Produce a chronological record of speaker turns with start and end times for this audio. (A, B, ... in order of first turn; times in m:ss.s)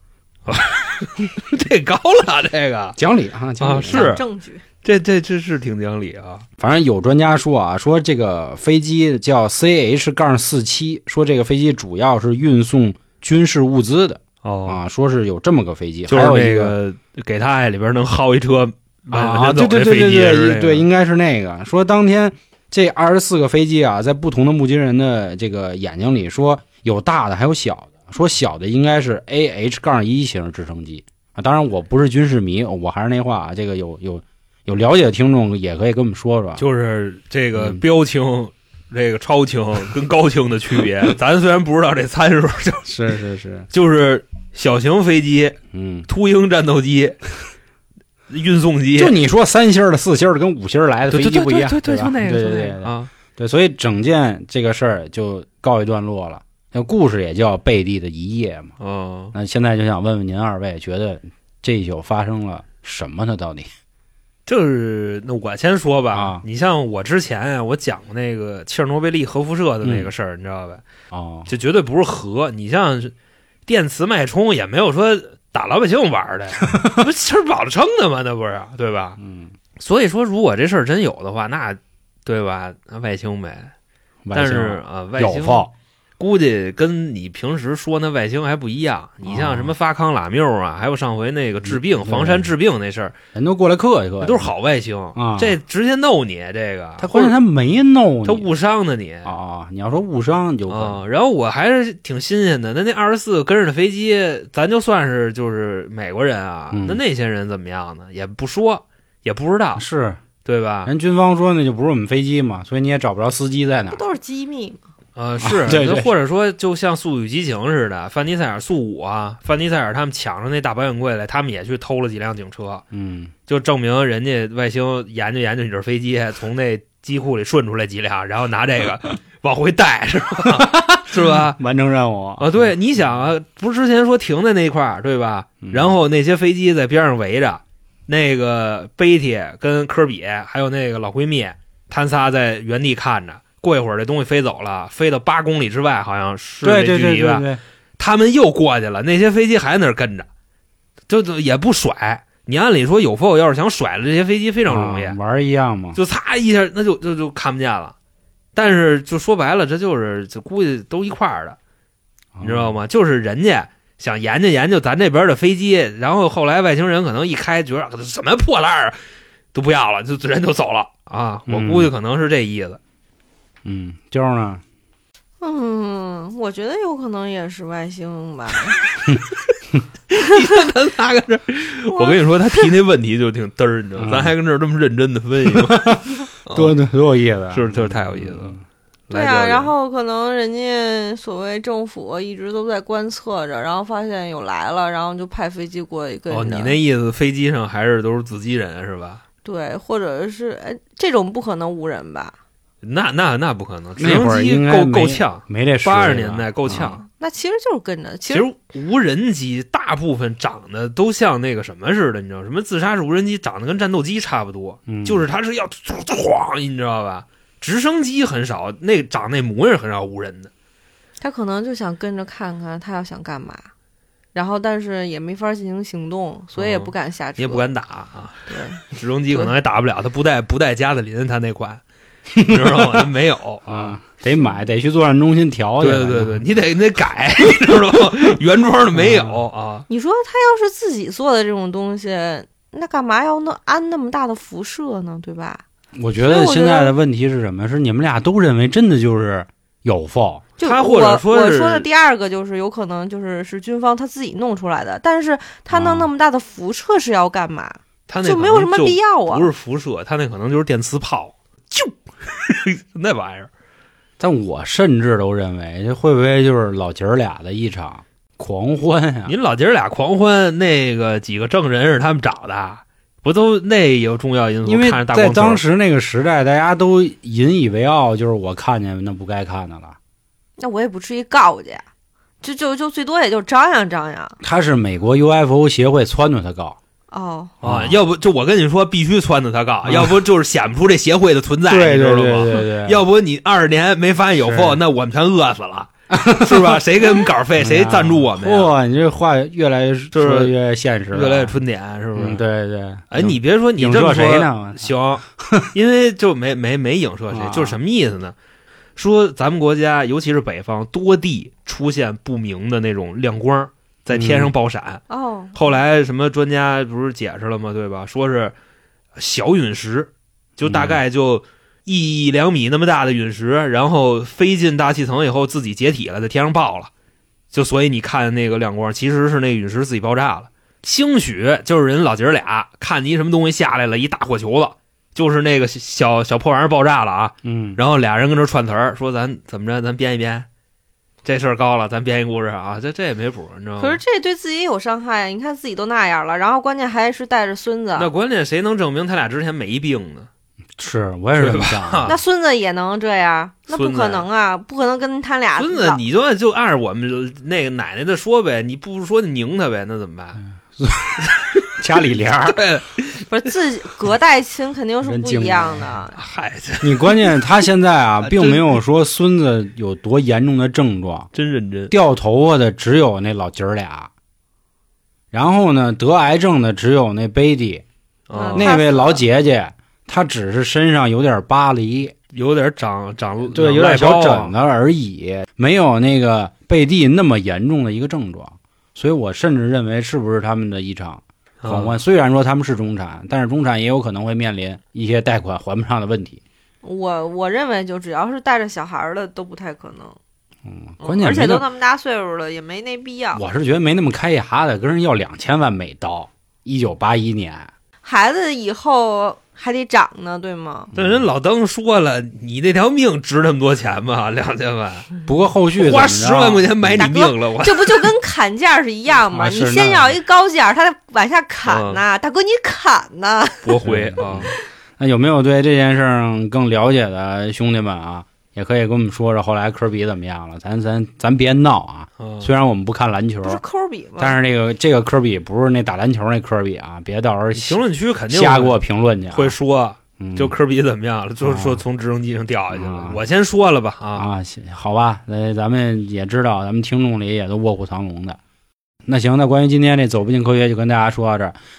0:00.4-0:03.0 A
0:03.0-0:04.1 B
0:03.6-0:04.2 A
0:03.9-0:04.6 C
0:04.8-0:06.4 A
0:06.6-0:16.8 B
0:14.4-0:14.8 A
0:16.1-0:20.8 A
0:19.1-0:36.6 B
0:36.6-0:42.9 A
0:37.5-0:37.8 B
0:42.8-0:43.7 B
0:43.7-0:47.2 A
0:45.7-0:46.1 B
0:48.3-0:49.2 A
0:48.9-0:58.7 B
0:51.1-0:53.1 A
0:58.8-0:59.3 A
0:59.3-1:03.7 B
1:04.4-1:10.8 A
1:06.1-1:06.4 B
1:09.8-1:10.1 B
1:11.1-1:11.5 B
1:11.5-1:13.1 A
1:13.7-1:19.2 A
1:16.6-1:17.0 B
1:19.2-1:19.5 B
1:19.8-1:23.7 A
1:24.2-1:25.7 B
1:24.3-1:33.2 A
1:29.2-1:29.7 B
1:31.6-1:32.5 B
1:33.3-1:34.5 B
1:34.2-1:37.4 A
1:35.2-1:35.6 B
1:37.0-1:38.5 B
1:38.2-1:39.3 A
1:39.2-1:41.0 B
1:40.7-1:49.8 A
1:46.7-1:47.0 B
1:49.8-1:50.2 B
1:50.4-1:50.9 A
1:50.8-1:54.0 B
1:53.9-1:54.8 C
1:55.2-2:02.8 A
1:55.4-1:56.1 B
2:02.9-2:03.3 B
2:03.5-2:11.6 A
2:10.4-2:12.6 B
2:12.4-2:27.4 A
2:15.6-2:16.0 B
2:26.6-2:27.6 B
2:28.0-2:30.3 A
2:31.1-2:35.2 A
2:34.7-2:36.0 B
2:35.9-2:37.9 A
2:38.5-2:41.6 A
2:42.4-2:42.8 B
2:42.4-2:49.0 A
2:49.5-2:52.8 A
2:51.5-2:51.9 B
2:53.6-2:54.6 B
2:55.4-2:58.8 C
3:00.1-3:06.7 A
3:01.9-3:02.7 C
3:04.0-3:04.3 B
3:05.4-3:06.0 B
3:06.5-3:08.6 B
3:07.5-3:09.7 A
3:09.1-3:16.8 C
3:16.3-3:19.2 A
3:19.4-3:22.4 C
3:22.8-3:27.0 A
3:24.0-3:27.0 B
3:27.0-3:28.5 C
3:28.3-3:40.5 A
3:34.9-3:35.2 B
3:41.2-3:43.7 C
3:44.3-3:47.7 C
3:46.5-3:51.8 A
3:48.5-3:49.5 C
3:52.3-3:53.1 B
3:52.4-3:54.0 A
3:53.7-3:56.4 B
3:55.8-3:59.8 A
3:58.9-3:59.4 B
3:59.9-4:05.6 C
4:06.0-4:10.4 B
4:06.2-4:06.9 C
4:10.6-4:19.5 C
4:10.6-4:11.9 A
4:15.7-4:16.1 B
4:18.1-4:23.5 A
4:24.2-4:29.3 B
4:29.2-4:35.6 A
4:34.6-4:40.0 B
4:40.6-4:41.8 C
4:42.4-4:44.4 C
4:44.4-4:46.8 B
4:47.1-4:47.5 C
4:47.6-4:58.7 A
4:47.6-4:48.0 B
4:49.8-4:50.2 B
4:51.7-4:53.0 B
4:54.4-4:54.8 B
4:56.1-4:56.8 B
4:57.6-5:01.6 B
5:00.1-5:00.5 A
5:01.1-5:02.4 A
5:02.1-5:05.7 B
5:03.1-5:08.3 A
5:07.3-5:07.8 B
5:09.0-5:18.5 A
5:14.1-5:14.5 B
5:15.1-5:15.8 C
5:19.2-5:26.9 A
5:20.6-5:21.0 B
5:27.5-5:40.5 A
5:37.4-5:37.8 B
5:41.2-5:44.0 A
5:43.8-5:48.1 C
5:48.0-5:50.3 A
5:50.8-5:52.2 B
5:51.4-5:52.2 A
5:52.0-5:56.0 C
5:53.7-5:54.2 A
5:55.6-6:00.4 A
6:00.7-6:02.6 B
6:01.2-6:01.7 A
6:02.3-6:03.2 A
6:03.3-6:06.2 C
6:05.0-6:06.0 B
6:06.1-6:07.4 A
6:06.8-6:11.3 B
6:08.2-6:08.8 A
6:11.3-6:11.9 A
6:11.9-6:14.1 B
6:15.3-6:17.8 B
6:18.3-6:18.8 A
6:18.4-6:19.2 C
6:18.5-6:22.1 B
6:22.3-6:24.5 A
6:23.5-6:36.4 B
6:31.6-6:32.0 A
6:36.8-6:40.2 C
6:40.6-6:41.6 B
6:41.0-6:43.4 C
6:43.3-6:47.7 B
6:48.0-6:50.9 C
6:50.9-6:51.3 B
6:50.9-6:55.1 A
6:55.2-6:57.1 B
6:55.8-6:58.1 A
6:57.0-7:03.8 C
6:59.3-7:00.2 B
7:01.6-7:02.0 A
7:03.6-7:04.5 A
7:03.8-7:13.6 B
7:12.2-7:12.5 A
7:13.4-7:14.4 C
7:14.2-7:19.6 B
7:17.5-7:18.8 A
7:19.3-7:24.2 A
7:20.2-7:20.5 B
7:21.4-7:21.8 B
7:22.7-7:23.2 B
7:24.2-7:28.4 B
7:29.0-7:31.6 B